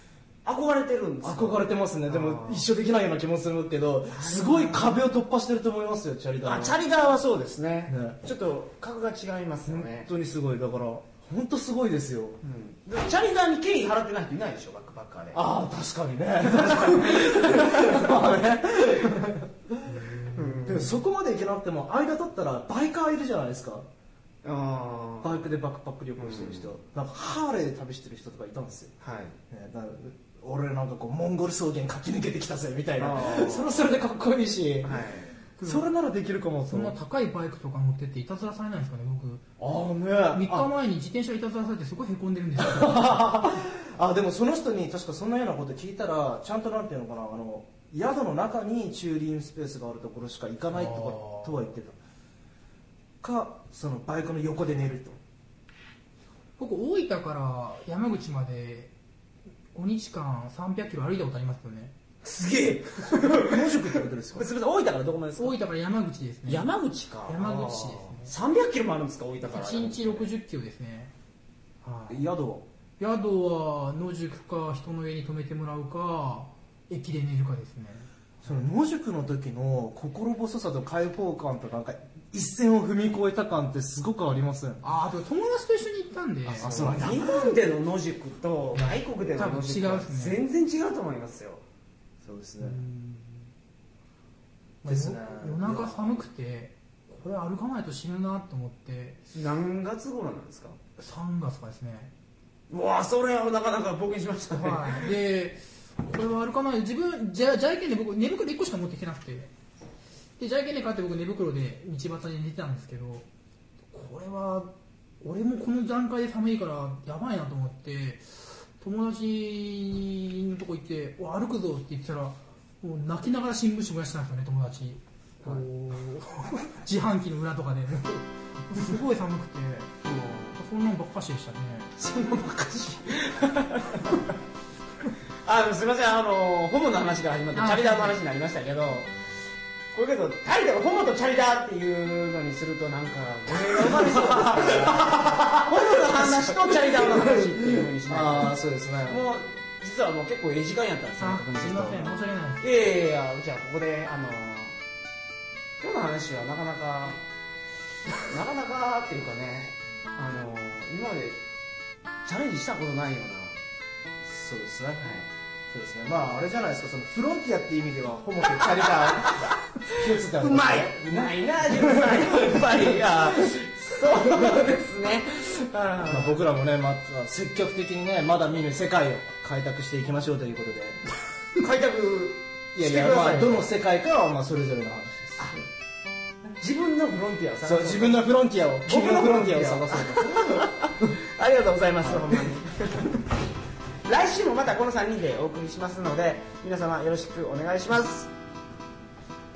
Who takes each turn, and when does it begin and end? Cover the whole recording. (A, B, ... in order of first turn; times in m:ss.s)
0:00.4-0:02.7 A
0:01.2-0:06.8 B
0:04.1-0:05.0 A
0:06.4-0:10.1 A
0:07.9-0:08.2 B
0:09.7-0:12.4 B
0:12.4-0:15.4 A
0:15.3-0:23.9 B
0:16.5-0:18.2 A
0:20.3-0:21.0 A
0:24.4-0:25.5 A
0:25.2-0:29.0 B
0:26.2-0:26.7 A
0:29.0-0:29.4 A
0:29.5-0:35.0 B
0:33.0-0:33.9 A
0:34.8-0:35.3 A
0:35.6-0:35.9 C
0:35.6-0:37.0 B
0:36.7-0:39.4 C
0:39.6-0:40.7 B
0:40.3-0:43.5 C
0:42.6-0:52.0 B
0:50.7-0:51.6 C
0:53.2-0:55.2 B
0:56.6-0:58.9 C
0:59.7-1:02.0 C
1:02.2-1:05.6 A
1:03.2-1:04.5 B
1:05.4-1:06.7 C
1:06.5-1:10.3 A
1:07.3-1:08.3 C
1:09.5-1:11.1 C
1:11.8-1:12.3 C
1:12.1-1:12.7 B
1:13.0-1:18.1 C
1:18.4-1:24.8 B
1:24.8-1:27.1 C
1:26.5-1:27.5 B
1:26.6-1:31.6 A
1:29.4-1:30.4 C
1:32.2-1:32.8 B
1:32.6-1:33.5 C
1:34.8-1:36.0 B
1:34.8-1:39.2 C
1:39.3-1:40.8 A
1:41.0-1:42.1 C
1:42.7-1:45.1 A
1:44.5-1:49.5 C
1:50.4-1:53.3 C
1:53.9-2:12.0 C
2:10.1-2:10.5 A
2:12.0-2:14.3 A
2:15.4-2:19.1 A
2:17.6-2:18.2 C
2:19.9-2:28.5 A
2:23.7-2:29.2 B
2:29.1-2:34.8 A
2:31.2-2:32.7 C
2:35.8-2:37.2 A
2:38.2-2:41.4 A
2:42.2-2:43.6 A
2:44.2-2:45.0 B
2:45.0-2:45.3 A
2:45.7-2:53.4 B
2:48.6-2:56.4 A
2:54.2-2:54.6 B
2:56.1-3:01.0 B
3:01.6-3:03.7 A
3:02.8-3:05.6 B
3:05.4-3:05.6 A
3:06.6-3:08.3 A
3:07.6-3:11.1 B
3:08.8-3:13.2 A
3:12.0-3:12.4 B
3:14.0-3:18.3 A